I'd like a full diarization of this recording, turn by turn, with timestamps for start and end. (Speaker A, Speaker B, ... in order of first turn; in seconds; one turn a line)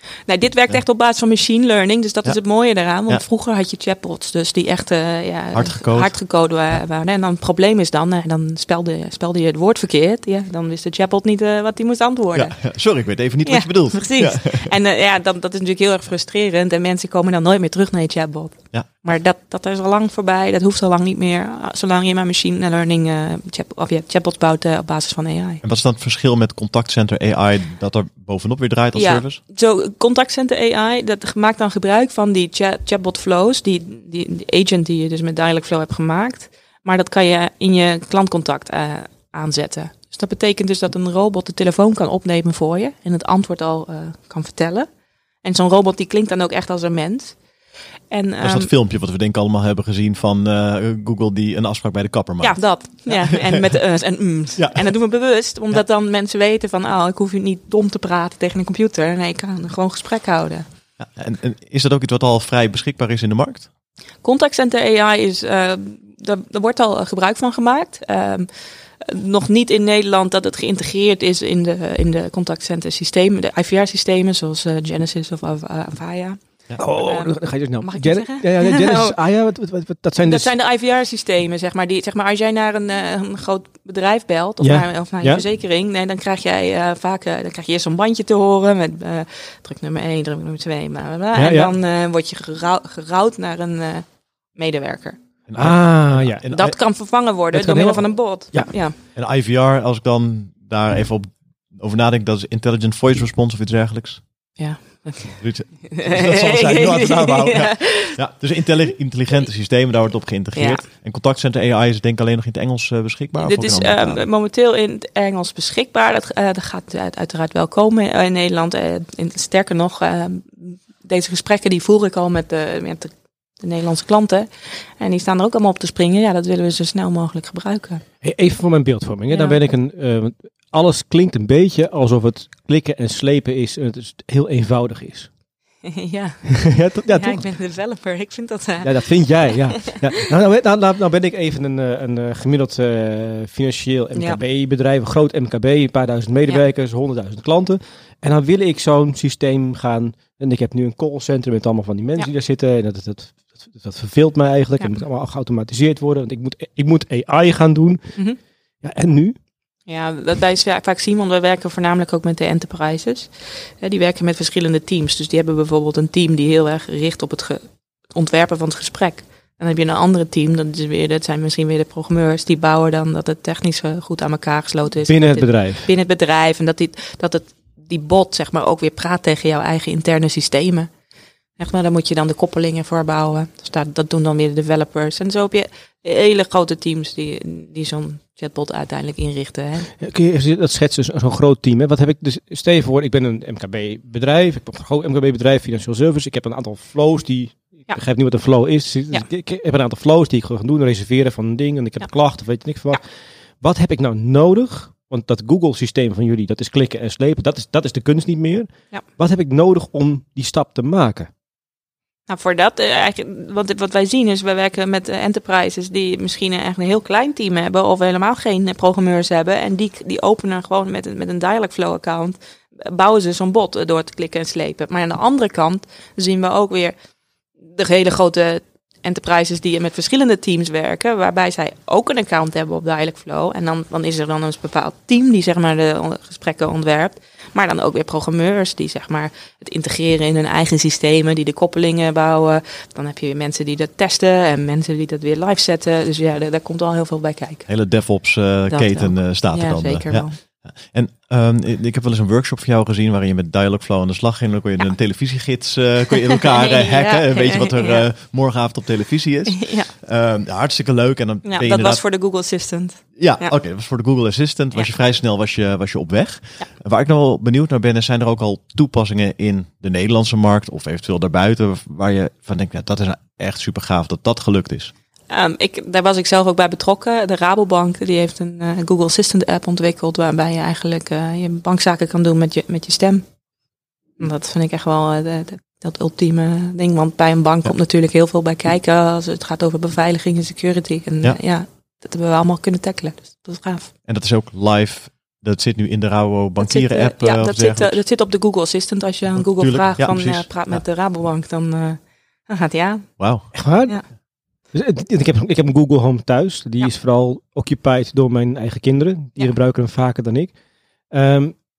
Speaker A: 0.3-12.7
Speaker B: 5.5-6.3
Speaker B: 12.3-14.7
Speaker A: 13.4-25.6
Speaker B: 25.6-29.4
Speaker A: 28.9-44.9
Speaker A: 45.4-47.4
Speaker A: 48.1-48.7
Speaker B: 48.4-53.8
Speaker A: 52.4-60.6
Speaker B: 54.6-55.0
Speaker B: 61.0-63.7
Speaker A: 64.2-68.5
Speaker A: 69.0-79.2
Speaker C: 76.8-80.5
Speaker A: 80.2-95.2
Speaker C: 84.6-85.4
Speaker C: 91.3-91.7
Speaker B: 95.5-96.9
Speaker C: 95.6-96.4
Speaker A: 96.5-99.0
Speaker C: 97.3-98.7
Speaker B: 99.0-104.2
Speaker A: 104.6-108.2
Speaker B: 105.4-114.2
Speaker A: 110.5-110.8
Speaker A: 113.4-128.0
Speaker C: 128.2-135.3
Speaker A: 129.3-129.6
Speaker A: 135.8-139.9
Speaker C: 136.7-137.5
Speaker C: 138.8-159.4
Speaker A: 144.1-144.4
Speaker A: 159.9-180.9
Speaker C: 175.0-175.9
Speaker A: 181.6-189.9
Speaker C: 190.0-211.3
Speaker A: 212.3-226.9
Speaker A: 227.7-247.8
Speaker B: 247.7-262.0
Speaker A: 248.7-250.4
Speaker A: 256.5-258.1
Speaker A: 259.5-259.9
Speaker A: 261.4-263.6
Speaker B: 263.1-274.9
Speaker A: 275.3-283.2
Speaker A: 284.2-293.9
Speaker B: 294.0-298.0
Speaker A: 296.6-303.3
Speaker B: 299.4-300.8
Speaker B: 303.2-303.5
Speaker C: 303.5-304.2
Speaker C: 304.7-310.5
Speaker C: 311.1-311.6